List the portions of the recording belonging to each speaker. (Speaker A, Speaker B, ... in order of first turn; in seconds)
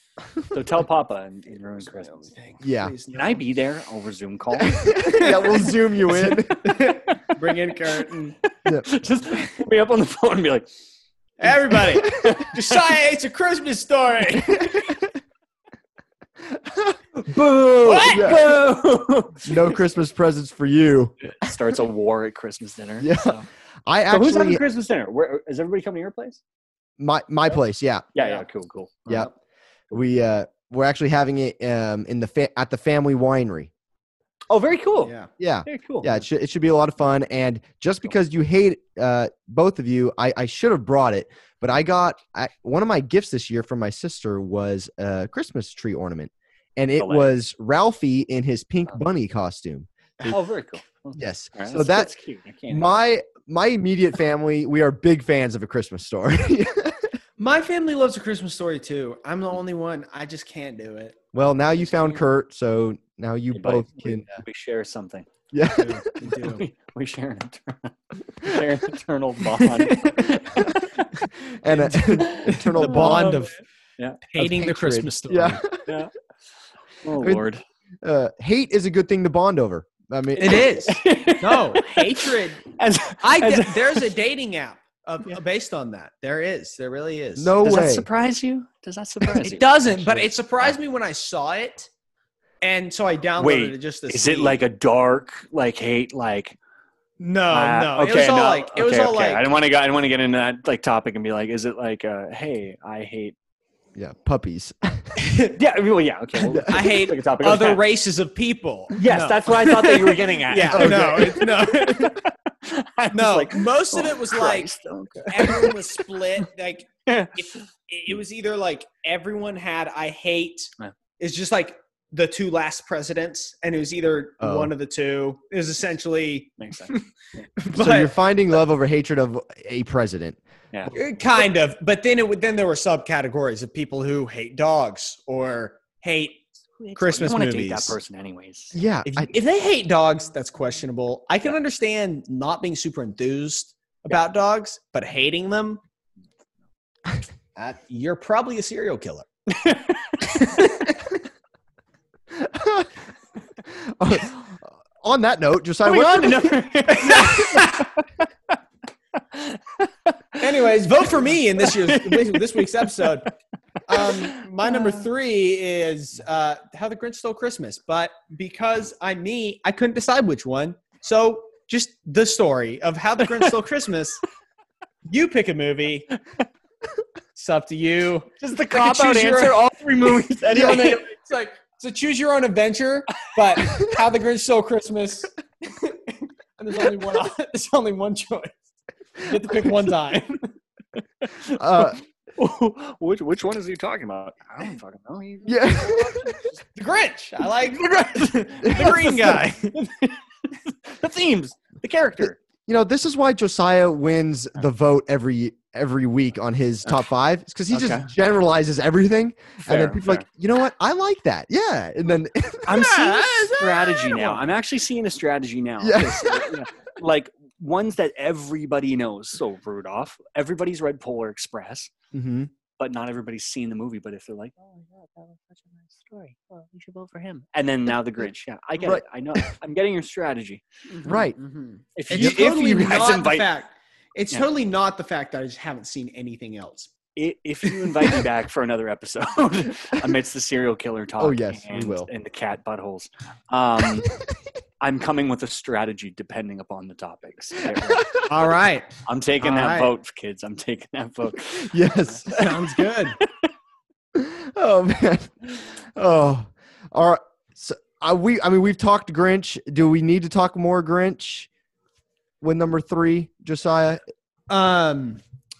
Speaker A: 0.5-2.3, 3.1-5.7, 6.7-7.4, 8.7-10.7, 11.4-12.8, 17.2-19.7, 21.2-23.5, 24.1-26.4, 28.1-29.3, 34.5-35.1, 35.6-36.2, 47.0-47.3, 50.2-52.9, 63.5-65.3, 66.2-71.1, 72.3-74.2, 75.8-76.1, 77.0-77.6, 80.4-84.1, 87.6-90.7, 93.4-96.5, 97.5-103.3, 105.5-107.8, 108.9-116.4, 117.1-117.6, 126.6-126.9, 136.8-138.8, 149.5-150.4, 155.8-158.0, 159.2-160.4, 161.6-163.1, 163.9-165.0, 178.4-181.1, 183.3-183.8, 191.2-196.6, 197.8-202.4, 207.7-208.1, 209.6-210.2, 212.7-221.9, 222.8-230.6, 231.9-233.5, 237.2-244.1, 244.8-248.2, 249.1-252.4, 253.2-253.5
Speaker B: 1.8-3.4, 4.8-8.4, 11.4-14.7, 17.8-18.4, 28.2-28.4, 35.0-35.3, 57.4-61.2, 65.8-66.6, 69.6-70.4, 71.7-73.5, 74.2-75.6, 80.4-87.5, 89.2-91.9, 92.6-94.6, 97.2-99.4, 105.2-105.5, 106.7-112.2, 113.1-114.7, 115.3-127.0, 127.6-128.2, 130.9-138.0, 139.1-145.8, 147.6-149.3, 150.2-151.1, 156.9-157.8, 160.4-163.3, 163.9-174.2, 175.1-176.1, 177.3-179.7, 180.4-188.6, 189.2-190.5, 196.7-199.7, 212.7-214.4, 231.0-236.9, 248.2-249.9, 252.3-253.2, 264.5-265.2
Speaker C: 2.6-2.9, 4.6-6.7, 14.6-15.0, 16.5-17.3, 18.0-18.5, 19.4-21.5, 23.0-24.6, 27.0-28.0, 29.9-33.7, 35.4-49.9, 51.1-52.1, 52.7-57.1, 61.3-64.4, 65.5-66.1, 70.5-70.9, 71.6-73.4, 74.4-75.8, 77.2-77.4, 78.0-80.8, 87.4-88.0, 103.9-105.1, 110.7-111.5, 124.4-124.7, 127.7-130.4, 138.7-139.3, 152.3-152.9, 153.7-156.6, 191.6-192.0, 195.4-196.3, 198.6-198.9, 202.6-212.9, 215.8-216.6, 222.1-222.5, 231.0-231.4, 232.1-232.4, 241.2-242.1, 247.8-248.3, 251.5-252.6, 254.1-261.5, 262.4-264.0